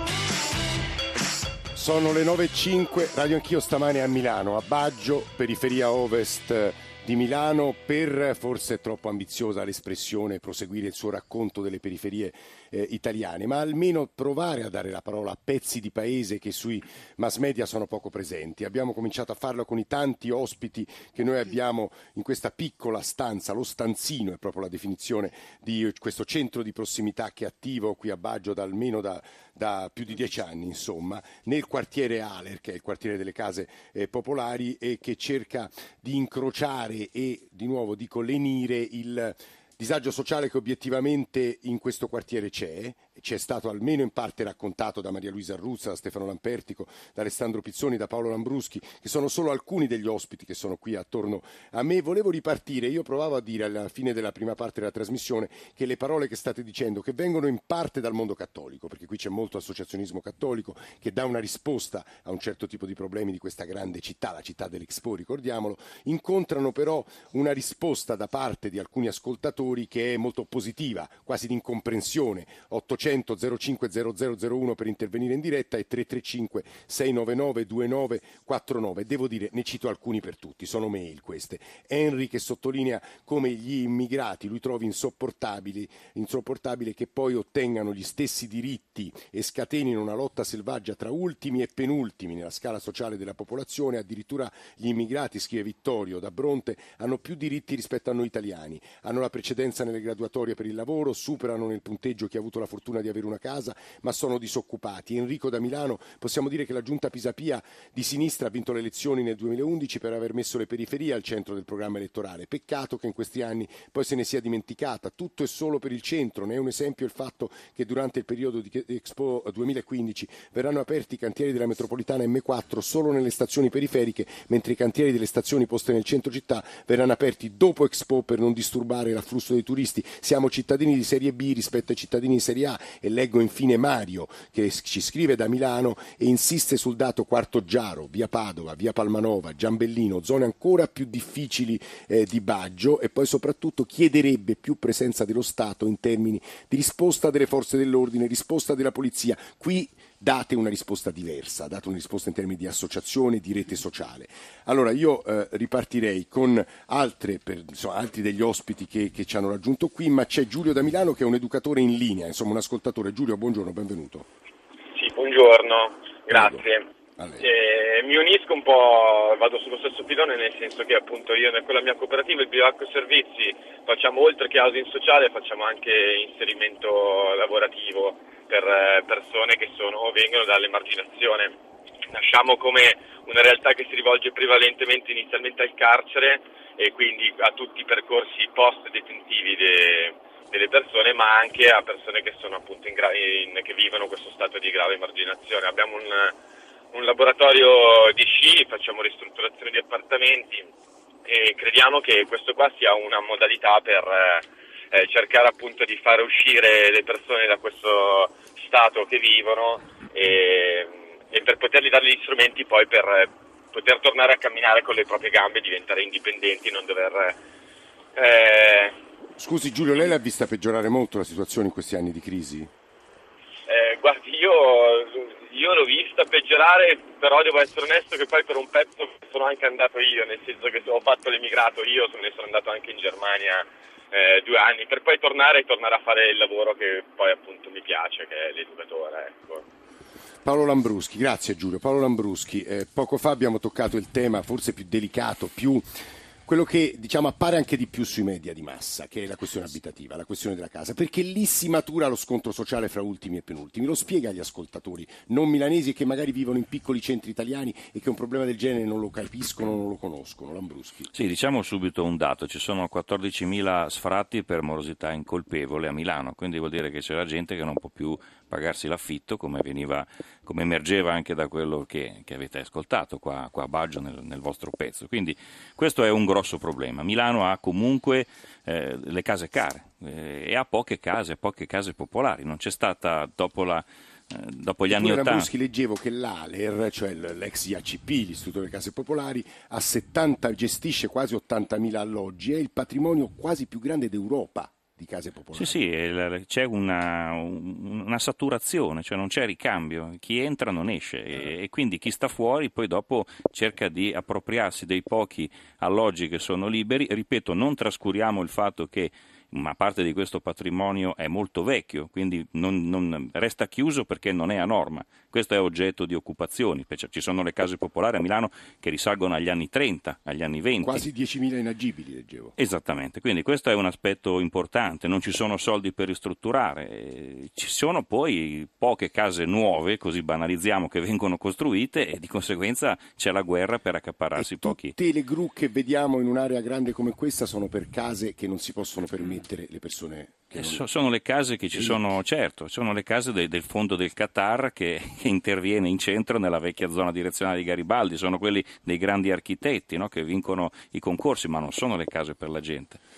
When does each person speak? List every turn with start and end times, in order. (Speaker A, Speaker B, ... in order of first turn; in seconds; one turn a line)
Speaker A: 1.7-164.3
Speaker B: 164.9-166.9
Speaker A: 166.3-166.6
Speaker A: 167.2-167.4
Speaker B: 167.4-181.5
Speaker B: 182.1-196.3
Speaker B: 196.9-200.7
Speaker B: 201.2-217.4
Speaker B: 218.1-218.9
Speaker A: 219.4-222.7
Speaker B: 223.7-239.6
Speaker A: 240.4-245.8
Speaker A: 246.4-261.1
Speaker C: 261.1-285.5
Speaker A: 284.9-295.8
Speaker C: 295.5-321.1
Speaker A: 320.8-322.5
Speaker C: 322.6-334.9
Speaker A: 334.4-340.8
Speaker C: 340.6-353.0
Speaker A: 341.7-342.0